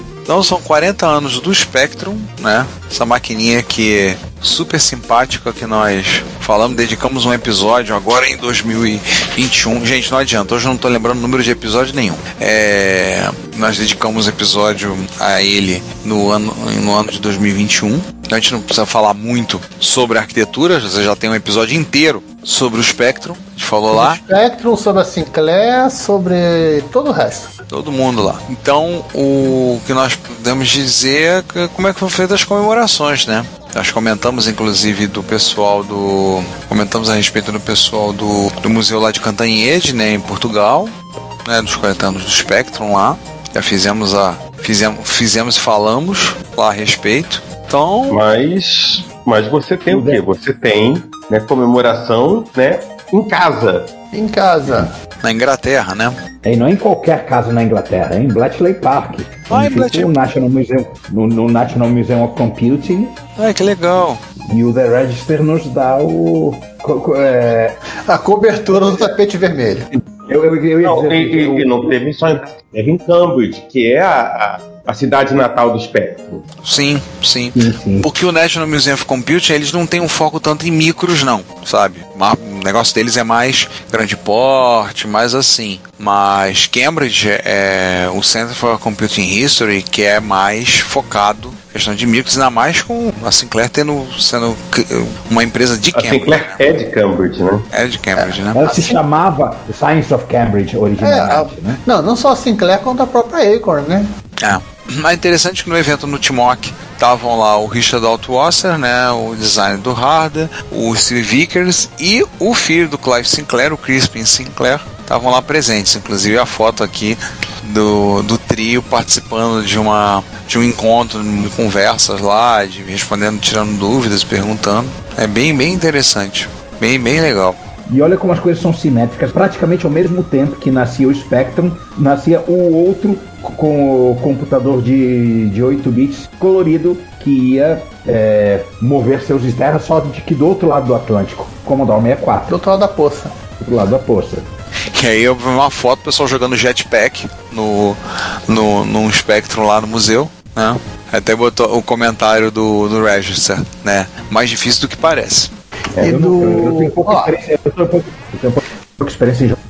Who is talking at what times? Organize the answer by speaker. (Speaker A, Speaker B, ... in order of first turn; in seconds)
Speaker A: 0.3-24.2, 27.7-40.9, 41.5-48.2, 55.2-56.2, 59.5-60.1, 63.4-64.2, 76.6-96.8, 97.7-98.6, 104.4-127.6, 144.9-155.5
Speaker B: 23.9-27.5, 54.1-54.9, 68.1-69.9, 98.2-99.0, 101.0-104.1, 142.5-143.4, 156.0-157.3
Speaker C: 48.1-53.9, 70.8-76.4, 95.9-97.7
Speaker D: 49.9-50.2, 56.4-63.2, 64.5-67.8, 70.3-71.7, 77.6-78.1, 98.5-101.8, 127.9-142.5, 143.6-144.5, 156.0-159.6